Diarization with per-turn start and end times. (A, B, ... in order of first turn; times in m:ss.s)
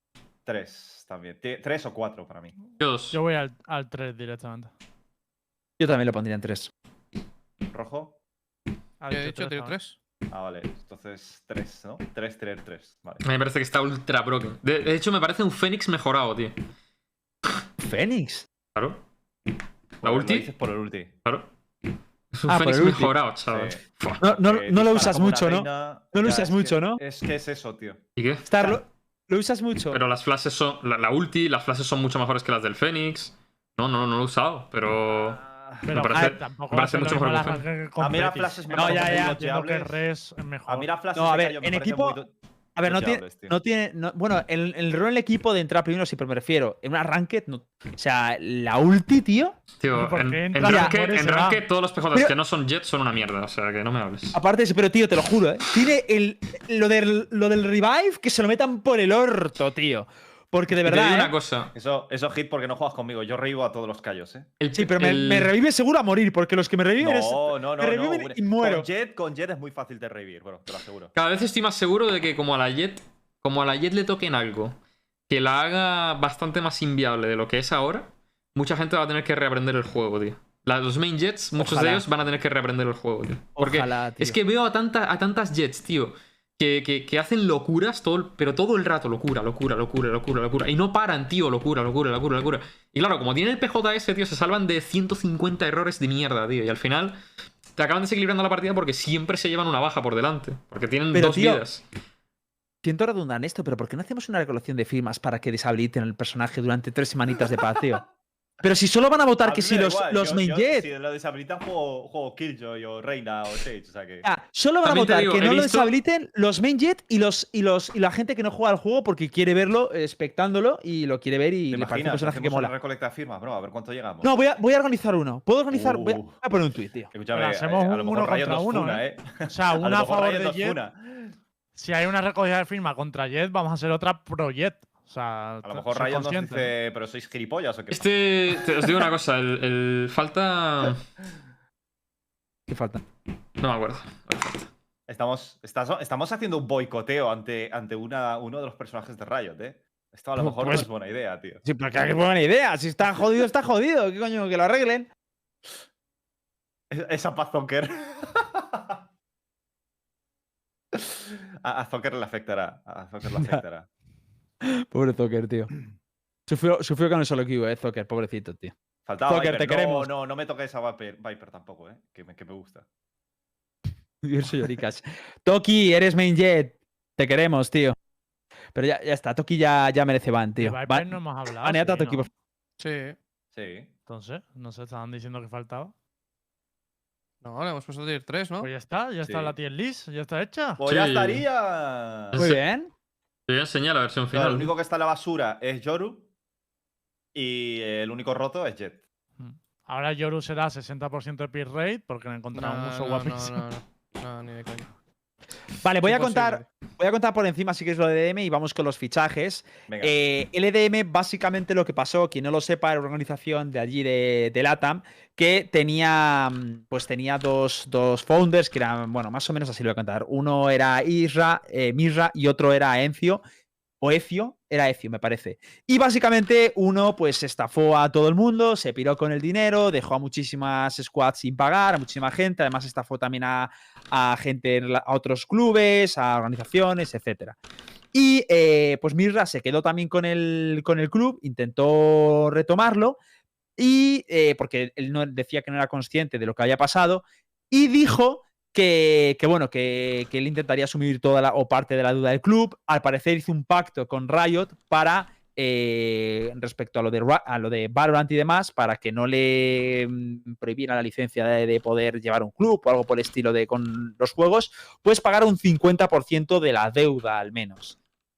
0:00.5-0:02.6 A
0:02.8-0:03.2 B
0:03.1-0:04.7 C
0:05.8-0:06.7 D
0:07.7-0:08.2 A
0:09.0-0:09.8 C
0:09.1-0:10.0 E
0:10.3-0:13.2 A
0:13.2-0:16.6 B
0:17.8-0:18.5 D
0:18.7-0:19.0 B
0:20.0-0:21.2 A
0:20.0-0:20.5 B
0:21.2-0:21.5 B
0:22.3-0:24.2 B
0:22.5-0:23.1 D
0:23.5-0:28.0 A
0:24.2-0:27.0 D
0:28.2-0:28.7 B
0:28.4-0:30.0 D
0:29.9-0:35.4 B
0:35.1-0:35.9 A
0:35.9-0:40.9 C
0:35.9-0:37.6 B
0:38.0-0:40.0 A
0:38.7-0:39.4 D
0:40.7-0:43.6 A
0:41.1-0:42.2 D
0:42.8-0:49.6 D
0:49.8-0:54.4 B
0:49.9-0:51.6 C
0:50.6-0:51.0 D
0:54.3-1:01.3 D
1:00.8-1:01.7 B
1:01.7-1:04.5 A
1:04.6-1:05.5 B
1:04.7-1:08.9 D
1:07.0-1:11.1 A
1:11.2-1:14.8 B
1:15.3-1:37.2 B
1:21.6-1:22.1 D
1:23.6-1:24.4 D
1:37.8-1:41.8 B
1:41.1-1:41.6 D
1:42.8-1:48.0 D
1:48.6-1:50.9 D
1:49.4-1:54.3 A
1:54.2-2:02.7 D
1:54.8-1:55.9 B
2:01.7-2:04.3 A
2:04.2-2:07.1 D
2:05.7-2:06.4 A
2:07.1-2:11.3 A
2:07.3-2:10.8 C
2:11.8-2:16.7 C
2:15.6-2:19.0 A
2:17.9-2:21.0 B
2:22.7-2:23.0 D
2:23.6-2:24.7 B
2:25.1-2:31.6 A
2:30.4-2:30.9 D
2:31.6-2:35.1 D
2:36.9-2:39.0 A
2:40.9-2:43.9 A
2:43.3-2:43.6 D
2:44.6-2:45.7 D
2:46.5-2:48.7 D
2:49.1-2:52.9 A
2:49.2-2:50.1 D
2:54.2-2:58.0 D
2:58.7-3:02.3 D
3:00.6-3:02.3 C
3:02.8-3:03.2 E
3:03.5-3:03.9 A
3:04.1-3:05.9 C
3:07.4-3:08.7 E
3:08.6-3:10.8 C
3:09.2-3:09.5 A
3:10.8-3:12.4 A
3:10.8-3:11.4 B
3:12.4-3:12.9 D
3:13.5-3:14.7 B
3:14.3-3:16.3 A
3:17.3-3:19.0 A
3:19.4-3:23.6 C
3:22.5-3:24.9 E
3:25.8-3:43.4 D
3:26.0-3:26.7 E
3:29.9-3:30.2 A
3:44.0-3:57.6 D
3:58.1-4:03.2 D
4:03.8-4:28.0 D